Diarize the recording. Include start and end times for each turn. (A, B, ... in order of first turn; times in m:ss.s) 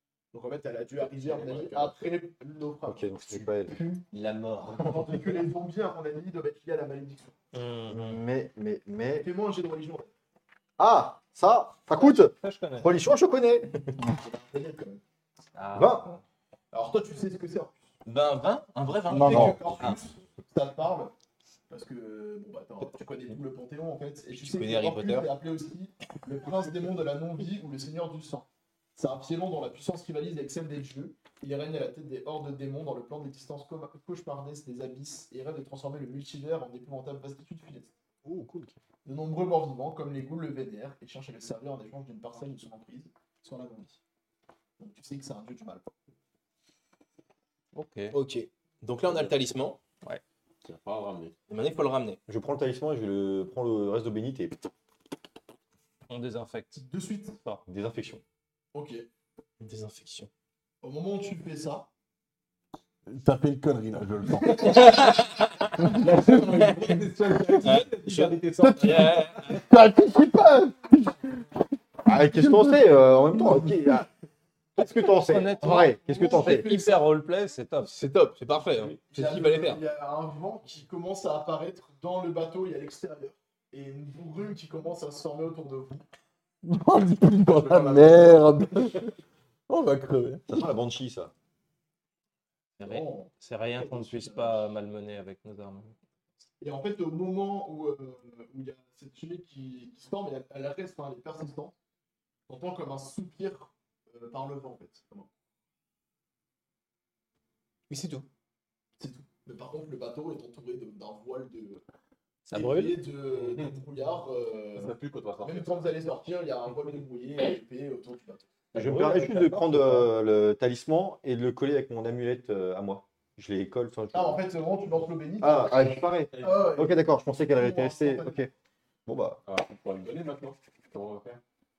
0:00.3-0:04.0 A
0:01.0-0:02.0 B
0:02.9-0:03.8 C
0:04.1-0:05.2 D
0:04.7-0:07.4 A
0:07.5-0:08.2 E
0:07.9-0:09.3 C
0:09.2-0:10.1 A
0:10.8-0:13.9 C
0:11.9-0:12.9 E
0:14.0-0:15.0 A
0:15.6-0:16.2 D
0:15.7-0:16.2 C
0:16.7-0:17.8 A
0:18.0-0:20.0 D
0:19.1-0:19.6 F
0:19.1-0:21.1 A
0:19.2-0:19.6 C
0:21.7-0:38.0 A
0:24.3-0:25.3 D
0:38.3-0:38.7 D
0:39.0-0:44.0 A
0:44.8-0:45.9 A
0:47.7-0:48.2 E
0:48.1-0:49.8 D
0:50.6-0:51.4 B
0:51.5-0:52.2 D
0:52.3-0:54.6 C
0:56.1-0:57.6 E
0:56.8-0:57.4 A
0:57.7-0:58.2 C
0:58.7-0:59.1 A
0:59.6-1:00.3 D
1:00.8-1:01.9 A
1:03.1-1:05.0 F
1:04.6-1:05.3 D
1:05.8-1:06.6 F
1:05.8-1:07.0 D
1:06.0-1:09.5 B
1:07.6-1:09.1 D
1:08.6-1:11.4 F
1:08.8-1:09.6 E
1:12.0-1:14.1 C
1:12.1-1:14.0 F
1:14.8-1:16.7 C
1:15.0-1:17.9 E
1:16.0-1:16.9 A
1:17.8-1:19.8 D
1:19.1-1:26.0 A
1:26.6-1:29.1 F
1:27.5-1:28.3 A
1:27.7-1:28.1 B
1:29.7-1:30.7 F
1:30.5-1:31.3 C
1:32.8-1:36.0 E
1:32.8-1:34.6 A
1:36.6-1:41.7 A
1:42.5-1:45.3 A
1:47.9-1:48.3 D
1:49.0-1:51.8 A
1:52.5-1:53.0 E
1:52.5-1:58.5 A
1:53.4-1:53.8 B
1:54.7-1:55.7 B
1:58.7-2:00.1 E
1:58.7-2:04.5 C
2:04.1-2:08.5 A
2:05.4-2:08.5 C
2:05.8-2:06.9 B
2:09.1-2:09.4 C
2:09.5-2:11.4 B